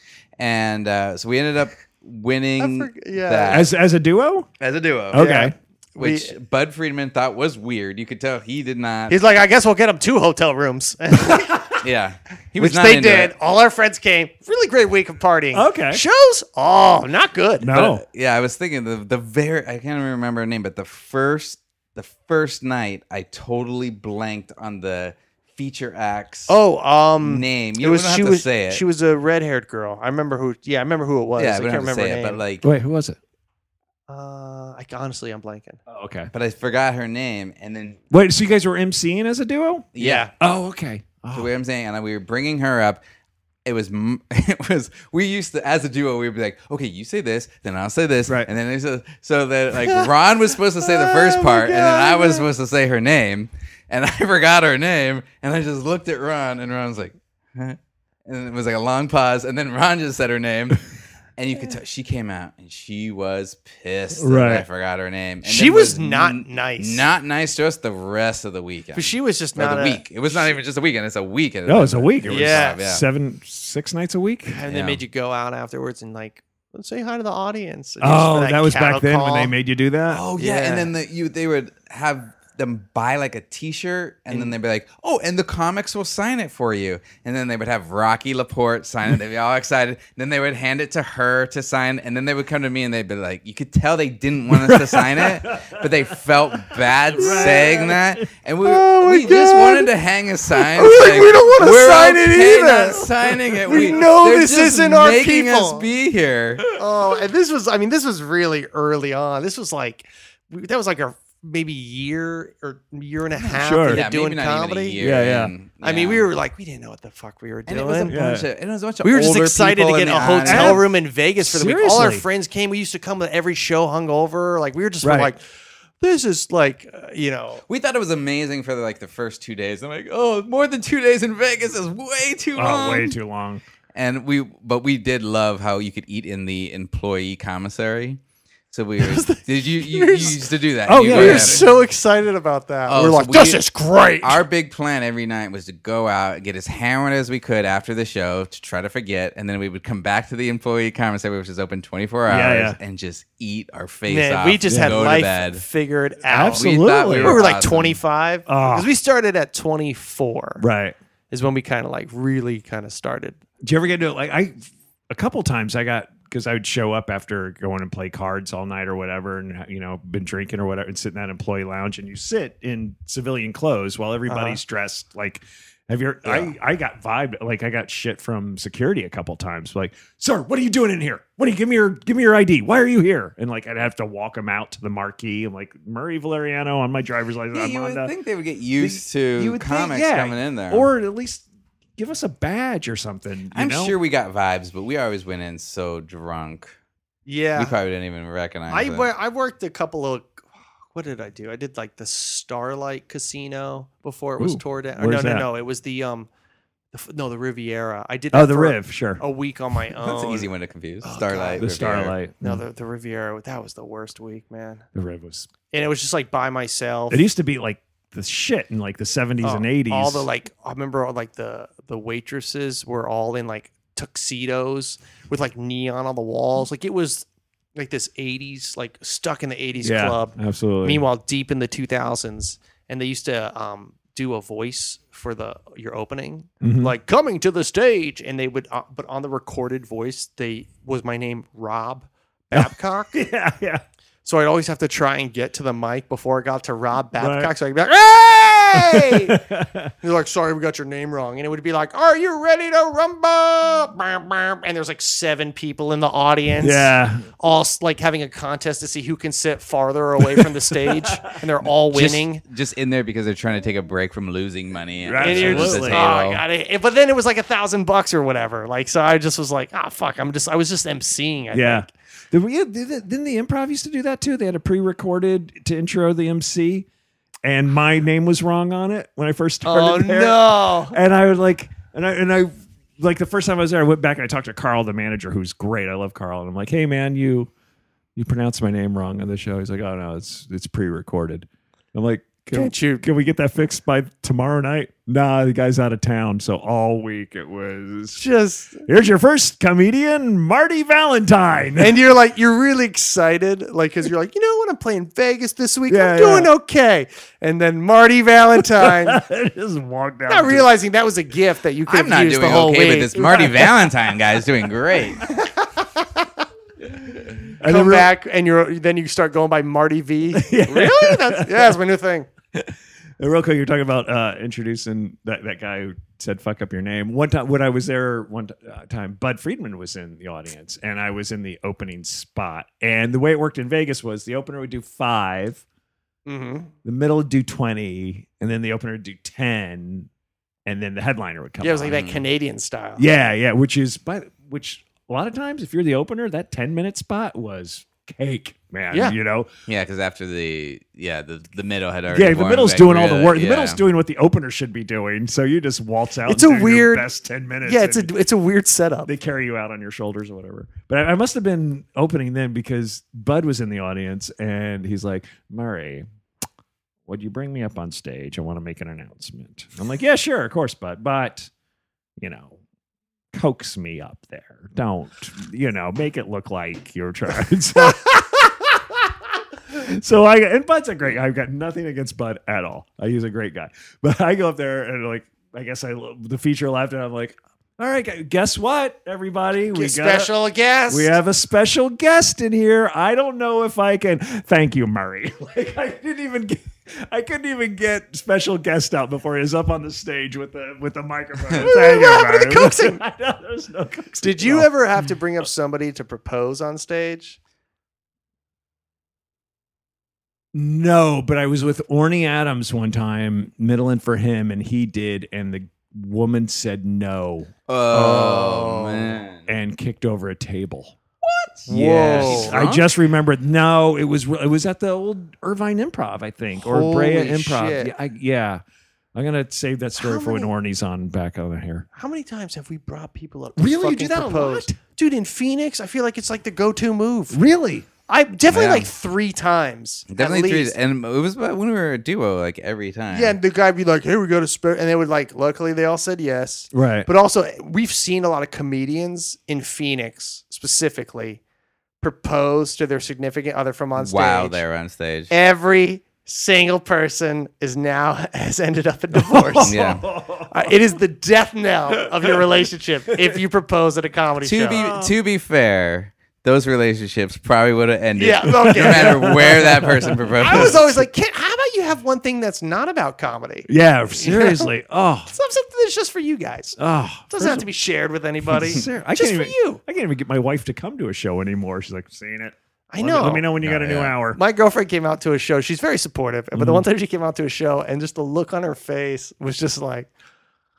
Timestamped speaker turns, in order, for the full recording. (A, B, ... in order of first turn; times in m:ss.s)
0:00.4-0:03.7 A
0:02.6-0:03.7 B
0:03.5-0:04.5 C
0:04.6-0:05.2 A
0:05.1-0:05.5 C
0:05.1-0:06.3 B
0:06.0-0:09.2 A
0:09.1-0:11.8 B
0:11.8-0:13.3 A
0:12.6-0:17.7 B
0:15.5-0:16.0 C
0:17.6-0:18.0 C
0:17.7-0:26.5 A
0:26.5-0:32.4 B
0:27.2-0:28.8 A
0:31.4-0:32.6 A
0:32.6-0:33.2 C
0:34.1-0:35.8 B
0:35.9-0:36.3 C
0:36.3-0:38.0 A
0:38.1-0:41.5 C
0:39.9-0:40.3 A
0:40.0-0:40.3 B
0:41.3-0:43.0 A
0:43.6-1:00.8 A
0:49.8-0:50.1 B
0:50.7-0:52.5 B
1:01.4-1:13.0 A
1:04.2-1:04.6 C
1:05.4-1:07.1 B
1:08.9-1:10.6 B
1:11.6-1:14.6 C
1:12.3-1:12.8 B
1:14.5-1:19.5 B
1:14.7-1:15.0 A
1:18.0-1:20.2 C
1:20.1-1:46.6 A
1:20.4-1:20.9 B
1:34.5-1:35.8 C
1:36.7-1:38.3 C
1:37.2-1:37.7 B
1:38.6-1:39.9 B
1:40.5-1:45.9 B
1:46.7-1:55.0 B
1:53.4-1:54.0 C
1:53.9-1:56.2 A
1:55.0-1:55.5 C
1:55.8-1:58.2 B
1:57.7-2:00.8 A
1:58.1-1:58.5 C
1:59.0-2:05.4 B
2:00.5-2:00.8 C
2:01.4-2:02.2 C
2:05.0-2:05.3 C
2:06.0-2:07.6 B
2:07.7-2:13.2 A
2:12.6-2:13.6 C
2:13.9-2:21.7 A
2:19.0-2:20.5 B
2:20.9-2:21.7 C
2:21.0-2:24.4 B
2:22.9-2:23.6 A
2:24.2-2:35.6 A
2:32.3-2:32.8 C
2:34.1-2:40.6 B
2:34.7-2:35.1 C
2:36.3-2:37.4 C
2:36.5-2:38.0 A
2:38.5-2:38.9 C
2:40.6-2:41.0 C
2:41.3-2:43.4 B
2:43.6-3:08.1 C
2:54.3-2:54.6 B
3:07.5-3:10.9 A
3:08.8-3:11.4 C
3:12.0-3:13.9 C
3:13.5-3:16.8 A
3:17.2-3:17.7 B
3:17.6-3:19.1 A
3:18.7-3:26.3 B
3:24.4-3:25.4 C
3:26.9-3:30.5 B
3:28.3-3:29.2 C
3:30.0-3:32.1 A
3:31.0-3:31.7 B
3:31.6-3:32.6 C
3:32.4-3:34.8 B
3:34.9-3:35.5 C
3:35.7-3:37.2 B
3:37.1-3:40.3 C
3:39.4-4:03.2 B
3:49.8-3:51.0 C
3:56.6-3:56.9 C
4:02.5-4:03.8 C
4:04.2-4:09.4 B
4:07.2-4:07.5 C
4:08.7-4:09.9 C
4:10.0-4:22.4 B
4:16.6-4:17.3 C
4:20.4-4:21.3 C
4:21.9-4:26.4 A
4:25.0-4:26.0 C
4:25.2-4:31.9 B
4:31.5-4:36.9 C
4:37.4-4:47.5 C
4:39.6-4:41.0 B
4:48.2-4:58.2 C
4:52.5-4:53.0 B
4:58.2-4:58.8 B
4:58.8-5:02.0 C
5:01.8-5:09.2 B
5:05.9-5:06.5 C
5:08.8-5:10.7 C
5:10.3-5:13.7 B
5:11.9-5:15.2 A
5:15.2-5:16.2 B
5:17.6-5:18.1 C
5:17.6-5:22.3 B
5:20.3-5:21.7 C
5:22.5-5:35.6 C
5:36.2-5:36.7 B
5:36.8-5:40.1 C
5:40.6-5:42.0 C
5:41.6-5:43.0 B
5:41.9-5:42.2 A
5:43.0-5:49.5 C
5:49.7-5:53.8 A
5:52.1-5:58.1 C
5:56.2-5:57.1 B
5:57.6-5:59.1 B
5:59.0-6:06.0 C
6:07.1-6:11.5 C
6:12.2-6:12.6 C
6:13.3-6:19.1 C
6:19.7-6:30.3 C
6:29.7-6:31.1 B
6:30.9-6:44.7 C
6:41.6-6:43.0 B
6:44.2-6:47.4 B
6:50.5-6:58.5 C
6:57.7-6:59.5 A
6:57.9-6:59.2 B
6:59.5-7:01.0 C
7:01.2-7:02.9 A
7:01.7-7:08.6 C
7:01.8-7:02.6 B
7:06.6-7:07.9 B
7:09.1-7:11.8 C
7:10.0-7:10.5 B
7:11.9-7:17.4 B
7:13.6-7:14.8 C
7:17.3-7:17.9 C
7:18.1-7:20.7 B
7:18.5-7:18.9 A
7:20.1-7:23.4 A
7:23.1-7:31.4 B
7:26.7-7:27.1 C
7:32.0-7:34.6 B
7:34.0-7:35.3 A
7:35.3-7:39.8 B
7:39.1-7:40.8 C
7:39.6-7:40.0 A
7:40.5-7:44.8 B
7:42.0-7:42.4 C
7:43.1-7:43.4 C
7:44.4-7:51.0 A
7:44.7-7:45.1 C
7:48.2-7:49.7 B
7:48.8-7:50.5 C
7:50.4-7:54.7 B
7:53.7-7:55.3 C
7:55.3-7:56.8 B
7:56.8-7:57.6 C
7:57.3-7:59.8 B
7:58.5-8:04.4 C
8:02.9-8:03.5 B
8:03.6-8:04.1 A
8:04.3-8:10.1 B
8:06.5-8:06.8 C